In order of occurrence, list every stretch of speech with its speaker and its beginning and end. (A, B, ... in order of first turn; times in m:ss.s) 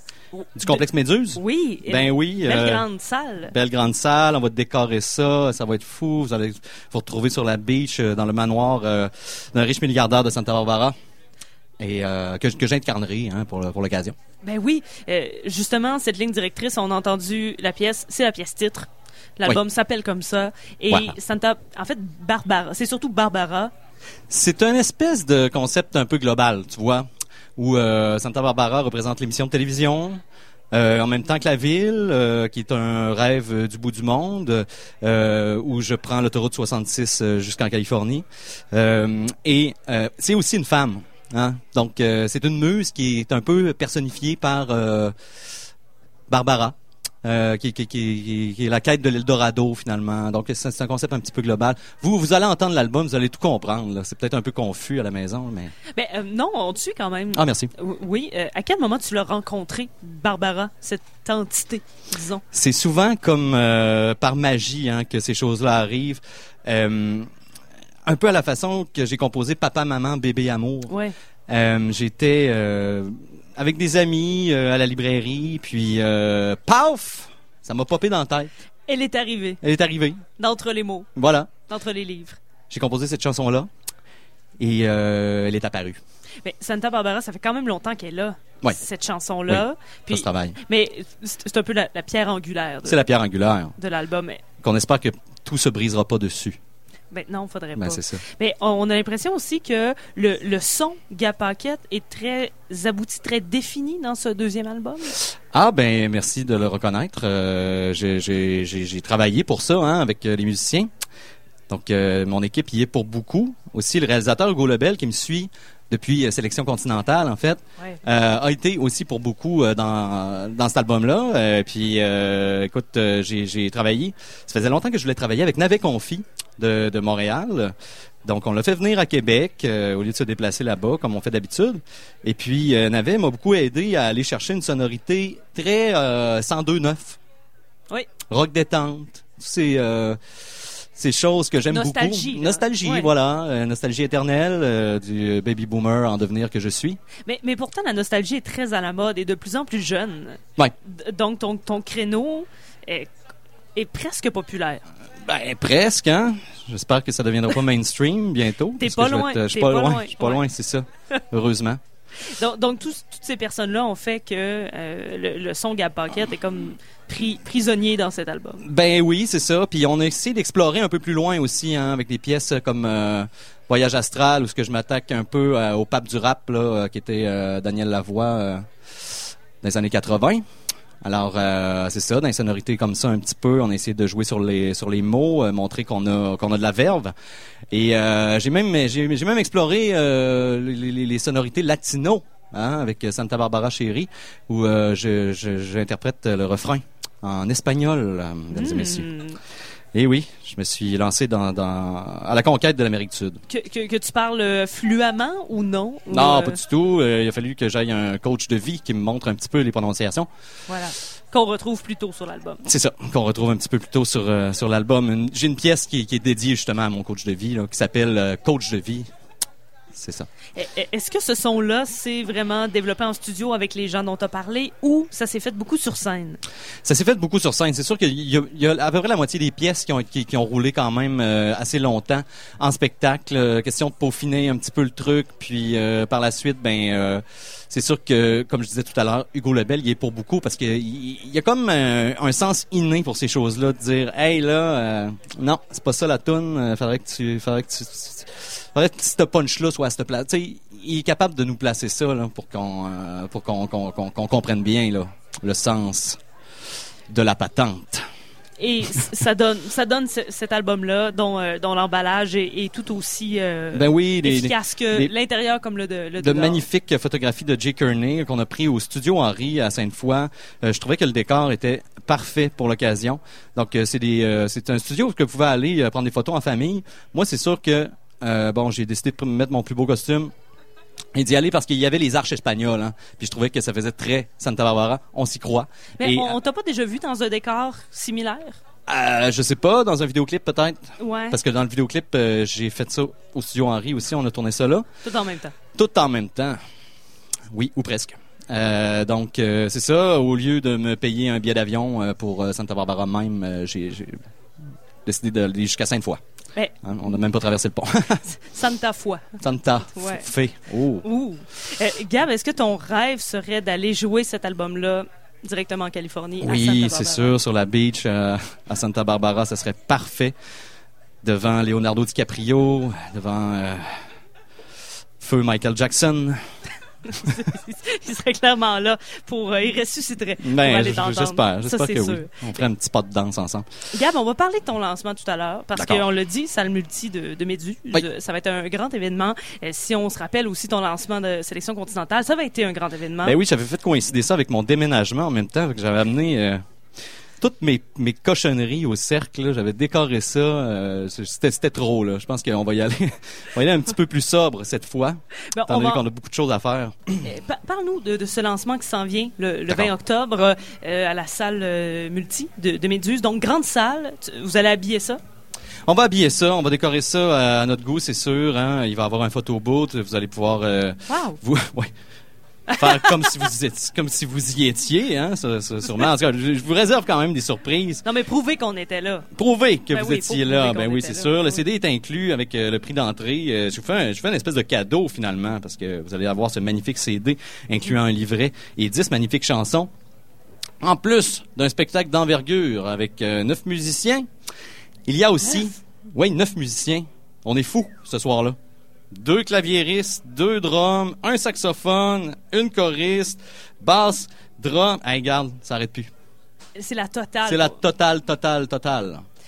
0:00.3-0:00.8 A
0:00.6-0:02.8 B
0:01.4-0:03.5 A
0:03.5-0:10.9 B
0:11.8-0:14.2 B
0:14.4-0:23.7 A
0:20.9-0:21.1 B
0:24.3-0:30.2 B
0:30.7-0:45.1 B
0:46.3-0:55.7 B
0:55.9-1:02.4 A
0:57.3-0:57.7 B
1:02.5-1:07.3 B
1:08.0-1:10.9 B
1:10.9-1:11.1 A
1:11.5-1:18.5 B
1:18.9-1:19.6 A
1:19.6-1:20.2 B
1:20.4-1:21.1 A
1:21.2-1:21.5 B
1:21.7-1:22.4 A
1:22.7-1:23.7 B
1:24.6-1:26.0 B
1:26.4-1:33.0 A
1:29.5-1:30.6 B
1:32.8-1:33.7 B
1:33.8-1:34.4 A
1:34.6-1:36.6 B
1:37.1-1:45.2 A
1:37.8-1:38.2 B
1:45.5-1:50.9 B
1:51.7-2:07.7 B
2:08.2-2:17.2 B
2:18.3-2:20.2 B
2:20.9-2:27.0 B
2:21.7-2:23.1 A
2:27.3-2:33.1 A
2:33.7-2:34.8 A
2:35.2-2:41.8 B
2:38.8-2:40.4 A
2:42.3-2:48.6 A
2:48.6-3:00.4 B
3:01.0-3:07.1 B
3:07.7-3:19.1 B
3:18.5-3:19.4 A
3:19.9-3:23.4 B
3:23.5-3:26.6 A
3:26.1-3:30.3 B
3:30.7-3:32.6 A
3:32.6-3:39.1 B
3:39.9-3:40.3 B
3:40.6-3:46.4 A
3:46.8-4:16.2 B
4:17.1-4:18.0 B
4:18.6-4:26.6 A
4:23.7-4:25.1 B
4:26.2-4:40.3 B
4:41.1-4:46.3 B
4:46.0-4:48.6 A
4:48.9-4:54.8 B
4:51.0-4:51.4 A
4:55.0-4:55.5 A
4:55.7-4:56.6 B
4:57.5-5:04.2 B
5:05.0-5:06.2 B
5:06.8-5:08.2 B
5:08.3-5:10.3 A
5:09.4-5:11.0 B
5:11.0-5:17.3 A
5:16.4-5:20.3 B
5:21.2-5:23.8 B
5:25.2-5:26.4 B
5:27.1-5:32.6 A
5:30.4-5:33.6 B
5:33.9-5:43.4 A
5:35.7-5:36.0 B
5:43.2-5:46.6 B
5:47.4-5:57.3 B
5:55.5-5:56.0 A
5:57.2-6:05.2 A
6:05.9-6:11.9 B
6:11.1-6:11.4 A
6:12.7-6:13.3 A
6:12.8-6:18.0 B
6:18.0-6:19.3 A
6:19.3-6:29.9 B
6:19.9-6:21.6 A
6:30.8-6:34.2 B
6:35.1-6:38.6 B
6:39.1-6:46.1 B
6:46.8-6:47.8 A
6:47.4-6:49.2 B